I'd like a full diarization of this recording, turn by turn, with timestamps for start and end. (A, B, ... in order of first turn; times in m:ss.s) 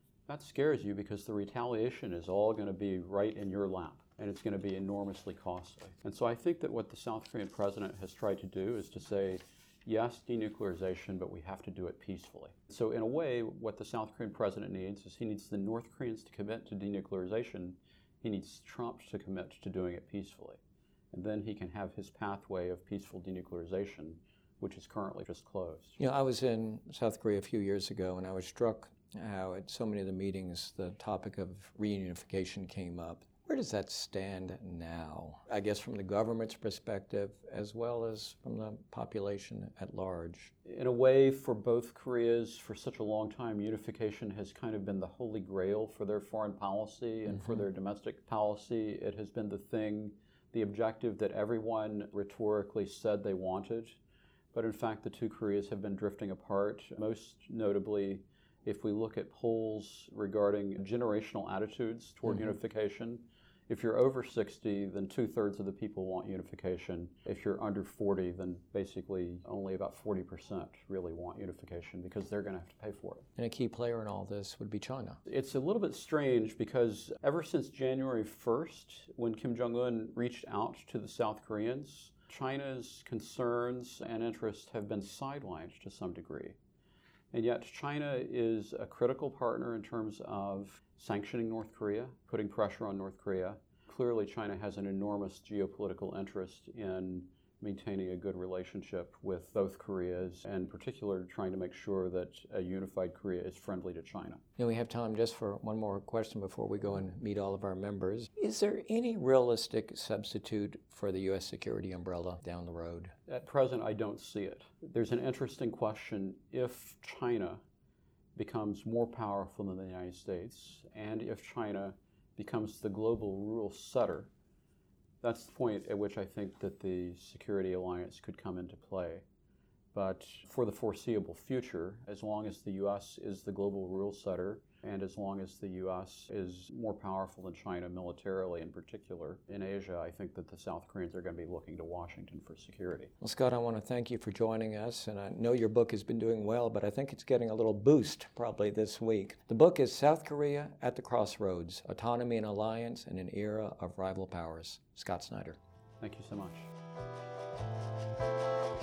0:00.3-0:20.6 A
0:21.1-0:26.0 A
0:26.0-0:40.5 B
0:40.6-0:54.0 A
0:54.5-1:13.2 A
1:13.4-1:15.2 B
1:15.2-1:26.6 A
1:27.3-1:44.4 A
1:44.6-1:53.1 B
1:53.3-1:57.6 A
1:58.3-2:04.3 A
2:05.2-2:09.2 A
2:09.9-2:23.1 A
2:23.2-2:35.6 B
2:36.0-2:36.7 A